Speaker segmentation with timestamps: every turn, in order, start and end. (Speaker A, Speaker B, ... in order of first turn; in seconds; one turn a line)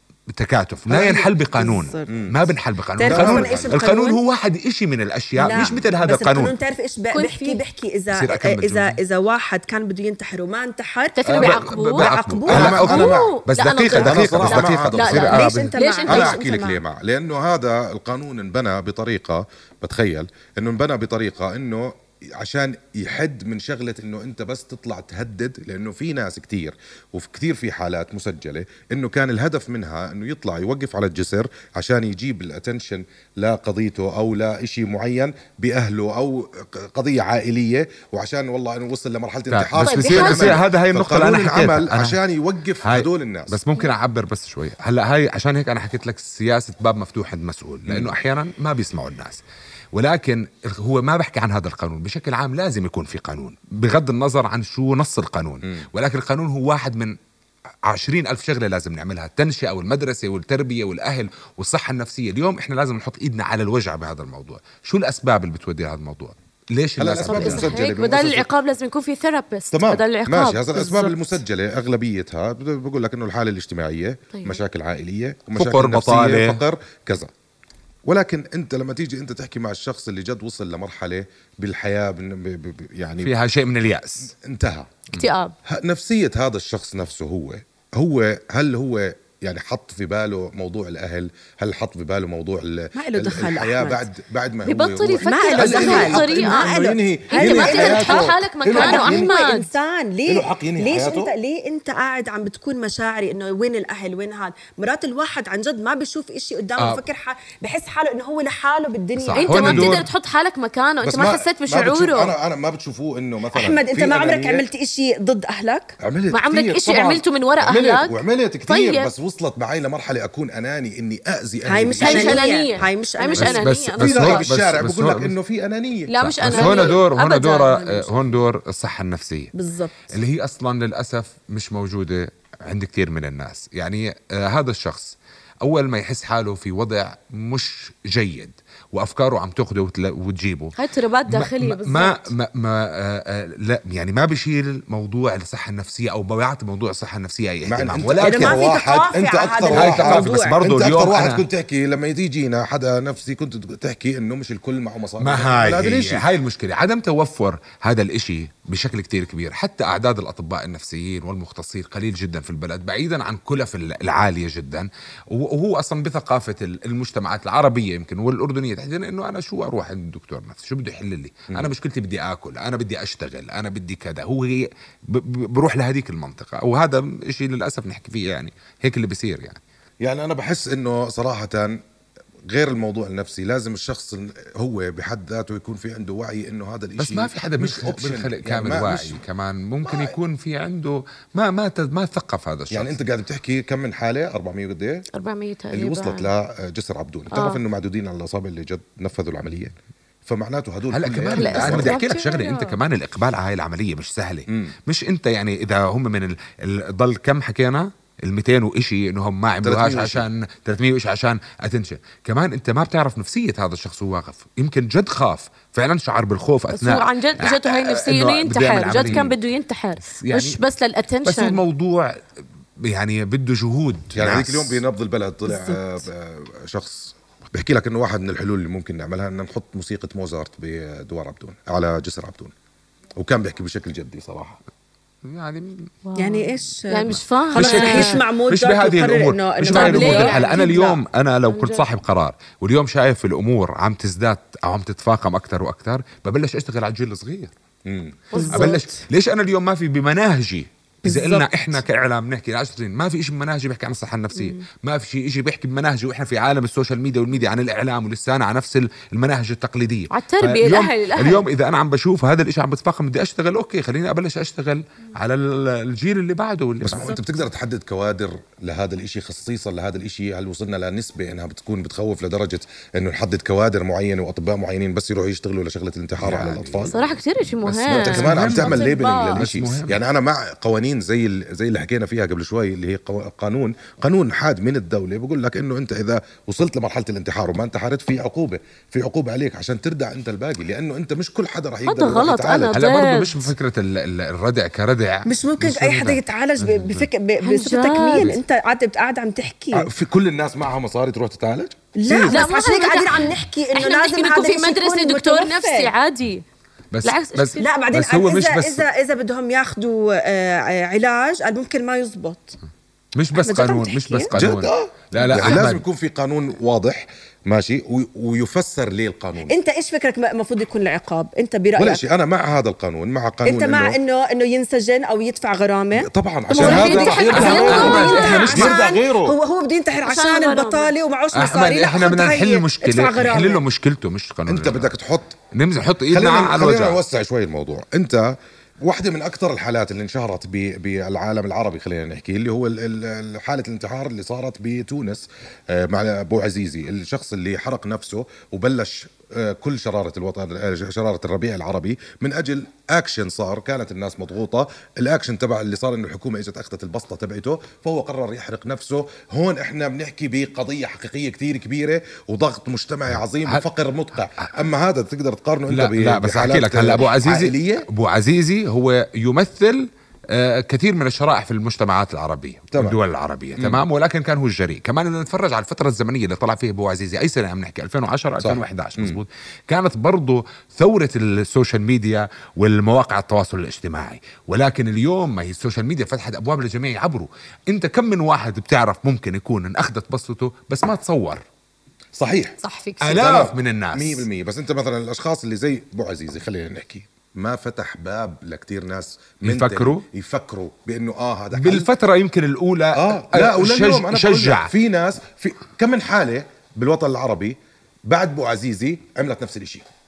Speaker A: 0.3-6.6
Speaker B: 0.9-2.3
Speaker B: 3.0-4.2
Speaker C: 3.0-3.7
Speaker B: 5.4-13.2
Speaker D: 7.1-7.6
Speaker A: 8.1-9.0
Speaker D: 11.2-16.3
Speaker A: 11.3-15.7
Speaker C: 12.5-13.3
Speaker C: 13.9-15.3
Speaker B: 15.1-16.8
Speaker C: 16.1-43.6
Speaker A: 39.5-42.2
Speaker D: 39.8-40.6
Speaker A: 42.8-57.1
Speaker C: 47.9-48.1
Speaker A: 57.9-67.8
Speaker C: 67.0-68.5
Speaker D: 67.2-71.2
Speaker C: 69.7-77.3
Speaker D: 74.3-74.6
Speaker A: 75.5-76.6
Speaker C: 78.1-83.3
Speaker A: 83.2-84.3
Speaker C: 84.4-85.0
Speaker D: 85.2-85.5
Speaker C: 85.7-99.3
Speaker B: 92.9-94.1
Speaker D: 94.6-96.8
Speaker B: 95.2-110.0
Speaker D: 97.3-99.7
Speaker C: 100.3-101.3
Speaker A: 106.8-107.0
Speaker A: 109.2-110.1
Speaker D: 109.3-112.3
Speaker C: 111.0-114.7
Speaker B: 113.5-116.0
Speaker C: 116.0-122.5
Speaker D: 116.3-119.1
Speaker B: 121.7-123.7
Speaker A: 122.0-122.4
Speaker D: 122.0-124.5
Speaker A: 123.3-125.3
Speaker C: 124.0-127.0
Speaker D: 126.1-127.9
Speaker A: 126.2-129.5
Speaker B: 127.8-128.2
Speaker B: 129.5-130.1
Speaker A: 130.1-140.8
Speaker D: 140.8-142.3
Speaker A: 141.3-148.6
Speaker C: 147.7-156.3
Speaker B: 148.2-150.7
Speaker A: 149.7-151.4
Speaker A: 155.2-179.6
Speaker C: 180.0-181.8
Speaker C: 182.5-189.2
Speaker A: 187.0-193.0
Speaker C: 189.9-190.1
Speaker C: 192.7-195.1
Speaker D: 195.2-196.3
Speaker C: 195.7-199.8
Speaker D: 197.3-197.6
Speaker C: 200.3-202.0
Speaker A: 200.9-219.4
Speaker D: 201.3-202.8
Speaker C: 209.6-210.2
Speaker D: 216.7-221.6
Speaker C: 218.9-219.3
Speaker A: 220.1-220.6
Speaker A: 221.2-222.2
Speaker A: 222.8-224.8
Speaker C: 224.2-232.5
Speaker B: 225.4-226.1
Speaker C: 233.2-234.6
Speaker A: 235.2-235.9
Speaker D: 236.1-238.2
Speaker B: 236.2-241.0
Speaker A: 237.1-247.5
Speaker D: 239.6-240.7
Speaker D: 241.5-241.9
Speaker C: 247.9-248.2
Speaker B: 248.3-249.0
Speaker D: 248.3-248.8
Speaker A: 248.4-267.1
Speaker B: 251.1-251.6
Speaker D: 260.1-261.4
Speaker C: 266.8-276.9
Speaker B: 266.9-267.2
Speaker A: 276.2-277.0
Speaker D: 276.9-279.4
Speaker A: 277.6-280.0
Speaker C: 277.9-292.8
Speaker D: 291.9-293.5
Speaker A: 292.7-297.1
Speaker B: 295.3-299.9
Speaker D: 297.4-298.3
Speaker C: 299.7-301.9
Speaker B: 301.9-305.9
Speaker D: 302.2-306.4
Speaker A: 306.9-308.9
Speaker D: 307.0-307.7
Speaker B: 307.6-312.6
Speaker A: 313.2-315.8
Speaker B: 313.3-314.4
Speaker C: 314.3-319.6
Speaker B: 315.4-315.7
Speaker B: 319.4-322.0
Speaker C: 321.8-324.0
Speaker B: 323.4-333.6
Speaker C: 325.9-329.4
Speaker D: 326.6-328.5
Speaker A: 326.6-328.8
Speaker D: 330.0-330.9
Speaker A: 331.3-334.9
Speaker C: 334.5-335.4
Speaker A: 335.5-337.0
Speaker C: 336.1-367.9
Speaker A: 363.4-364.5
Speaker A: 365.7-391.4
Speaker C: 378.4-379.2
Speaker C: 392.2-392.6
Speaker D: 392.6-393.5
Speaker A: 393.0-394.3
Speaker C: 393.2-401.9
Speaker A: 399.4-400.1
Speaker A: 401.5-404.7
Speaker C: 403.0-407.6
Speaker C: 408.1-409.9